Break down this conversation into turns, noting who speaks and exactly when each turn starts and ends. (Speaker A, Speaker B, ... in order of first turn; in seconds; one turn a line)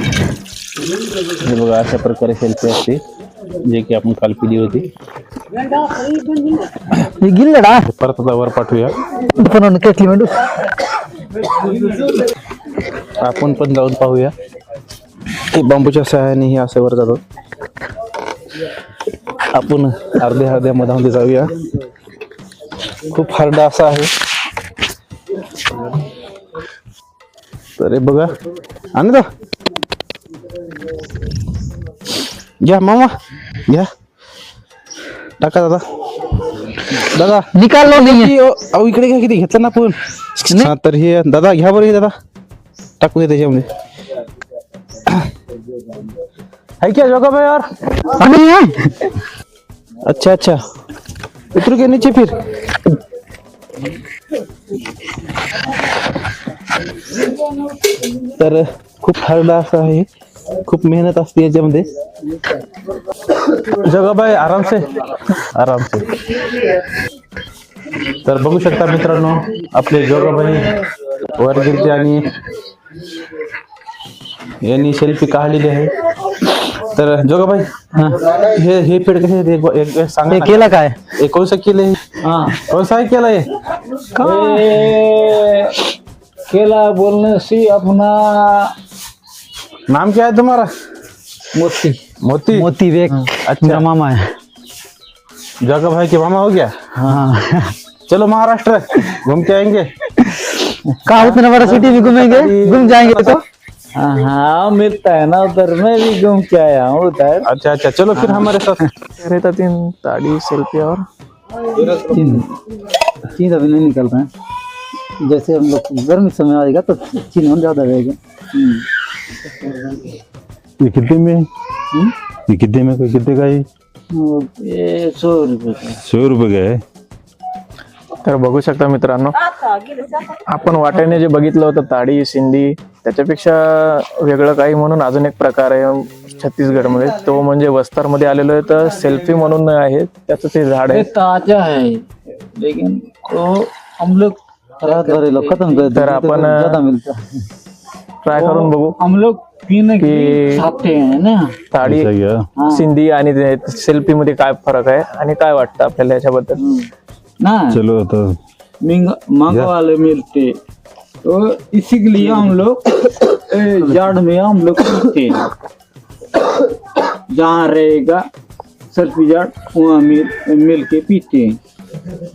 Speaker A: 1.3-3.0
Speaker A: 3.6-4.9
Speaker B: 7.0-7.8
Speaker A: 7.8-8.9
Speaker B: 9.3-10.4
Speaker C: 11.6-12.1
Speaker A: 13.2-14.3
Speaker A: 15.4-17.2
Speaker A: 19.5-21.6
Speaker A: 23.0-24.1
Speaker A: 27.8-28.4
Speaker A: 28.9-29.3
Speaker A: 32.6-33.1
Speaker A: 35.4-35.8
Speaker A: 37.0-42.1
Speaker B: 37.6-38.0
Speaker A: 43.0-43.7
Speaker A: 46.8-47.7
Speaker B: 48.2-48.7
Speaker A: 50.1-50.6
Speaker A: 51.5-52.9
Speaker A: 58.4-60.1
Speaker A: 60.6-61.9
Speaker A: 63.5-66.2
Speaker A: 68.2-70.8
Speaker A: 71.3-72.4
Speaker A: 74.6-75.9
Speaker A: 76.7-83.5
Speaker B: 80.3-81.0
Speaker C: 82.2-82.6
Speaker C: 84.2-85.8
Speaker B: 84.2-84.6
Speaker C: 86.5-88.7
Speaker A: 89.9-90.7
Speaker C: 91.5-92.0
Speaker A: 92.2-92.7
Speaker B: 92.5-94.3
Speaker A: 93.4-93.9
Speaker A: 95.6-96.8
Speaker C: 97.0-97.2
Speaker B: 97.1-97.8
Speaker A: 98.1-99.9
Speaker B: 101.1-103.4
Speaker A: 101.2-103.0
Speaker C: 101.6-101.9
Speaker C: 104.0-107.5
Speaker A: 107.5-108.8
Speaker C: 108.2-108.5
Speaker D: 109.2-111.0
Speaker C: 111.7-112.4
Speaker B: 112.1-112.5
Speaker B: 113.2-114.3
Speaker B: 115.2-118.8
Speaker E: 120.8-121.5
Speaker E: 122.5-123.7
Speaker C: 124.1-126.0
Speaker E: 126.0-126.8
Speaker D: 128.2-129.3
Speaker D: 130.2-141.1
Speaker C: 140.9-145.9
Speaker B: 144.8-147.4
Speaker D: 145.9-146.8
Speaker D: 148.2-149.0
Speaker C: 148.3-151.6
Speaker D: 150.0-150.7
Speaker D: 151.7-152.1
Speaker E: 151.8-152.5
Speaker C: 152.6-152.8
Speaker D: 152.7-156.6
Speaker C: 156.6-156.9
Speaker C: 157.4-157.8
Speaker E: 157.7-158.4
Speaker C: 158.8-160.6
Speaker C: 161.2-165.5
Speaker C: 167.3-168.3
Speaker C: 168.9-171.6